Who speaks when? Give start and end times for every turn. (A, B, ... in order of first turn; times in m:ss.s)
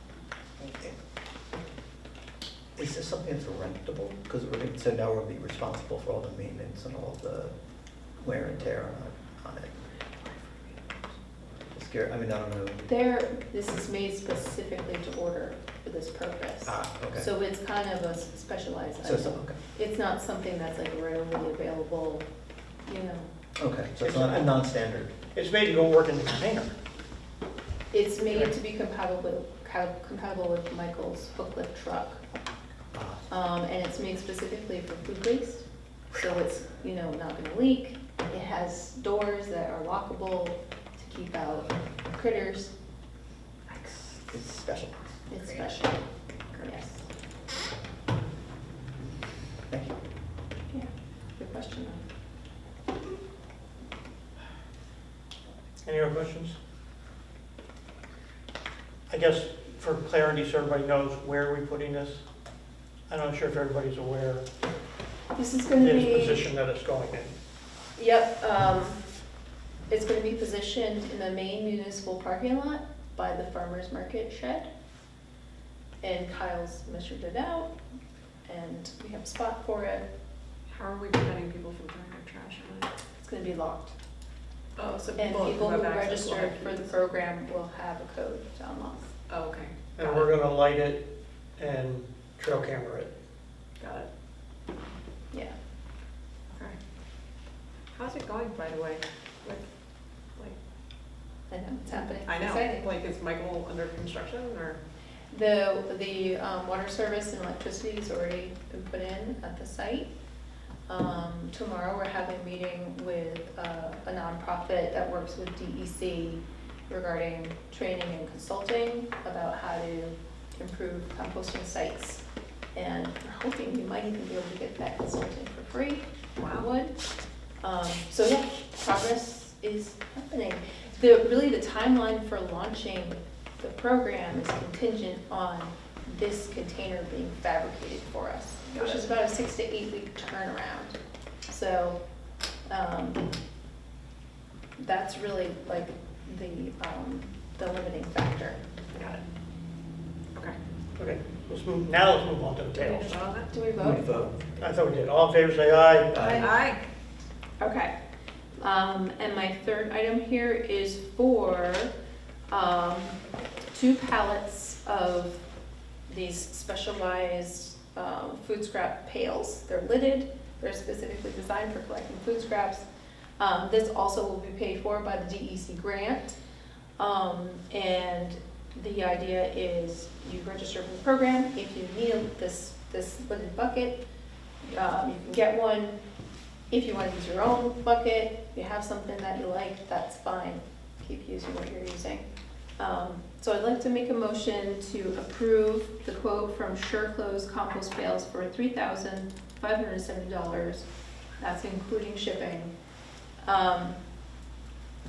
0:02.8-0:07.5 A
0:08.2-0:11.1 A
0:11.7-0:12.8 A
0:12.8-0:22.2 B
0:16.6-0:17.3 A
0:19.0-0:19.6 A
0:22.8-0:23.3 B
0:23.6-0:25.1 A
0:24.0-0:24.5 C
0:25.3-0:26.7 C
0:27.9-0:32.2 B
0:32.9-0:33.2 A
0:33.3-0:42.7 B
0:43.7-0:45.2 A
0:45.3-0:46.0 B
0:46.6-0:47.0 B
0:49.7-0:50.0 A
0:50.7-0:52.0 B
0:55.8-0:56.6 C
0:59.1-1:02.2 C
1:03.1-1:04.5 C
1:05.3-1:06.5 B
1:05.8-1:07.3 C
1:08.0-1:09.0 B
1:09.9-1:14.7 B
1:16.0-1:17.8 B
1:18.4-1:20.0 B
1:20.7-1:22.9 D
1:23.2-1:23.9 B
1:24.8-1:27.0 D
1:25.2-1:29.1 B
1:29.3-1:30.4 D
1:30.0-1:31.0 C
1:31.6-1:33.1 C
1:33.8-1:34.1 D
1:35.3-1:35.6 B
1:36.5-1:36.8 D
1:37.9-1:39.7 D
1:41.5-1:42.9 B
1:41.9-1:44.8 D
1:45.3-1:50.1 B
1:50.9-2:02.2 B
2:02.7-2:07.0 B
2:06.4-2:06.6 D
2:07.6-2:22.0 B
2:18.8-2:19.0 D
2:22.6-2:23.2 B
2:24.8-2:28.6 B
2:28.9-2:29.2 D
2:31.0-2:33.1 C
2:32.8-2:34.3 B
2:33.0-2:33.5 D
2:33.8-2:34.4 A
2:34.6-2:36.3 C
2:36.1-2:36.5 A
2:36.1-2:36.5 B
2:36.4-2:36.9 D
2:37.6-2:37.9 B
2:38.6-2:41.9 B
2:42.5-2:43.2 B
2:43.7-2:45.4 B
2:46.1-2:52.8 B
2:53.4-2:56.4 B
2:57.0-3:04.0 B
3:04.6-3:06.0 B
3:06.7-3:12.2 B
3:12.8-3:20.8 B
3:21.4-3:22.7 B
3:23.4-3:24.0 B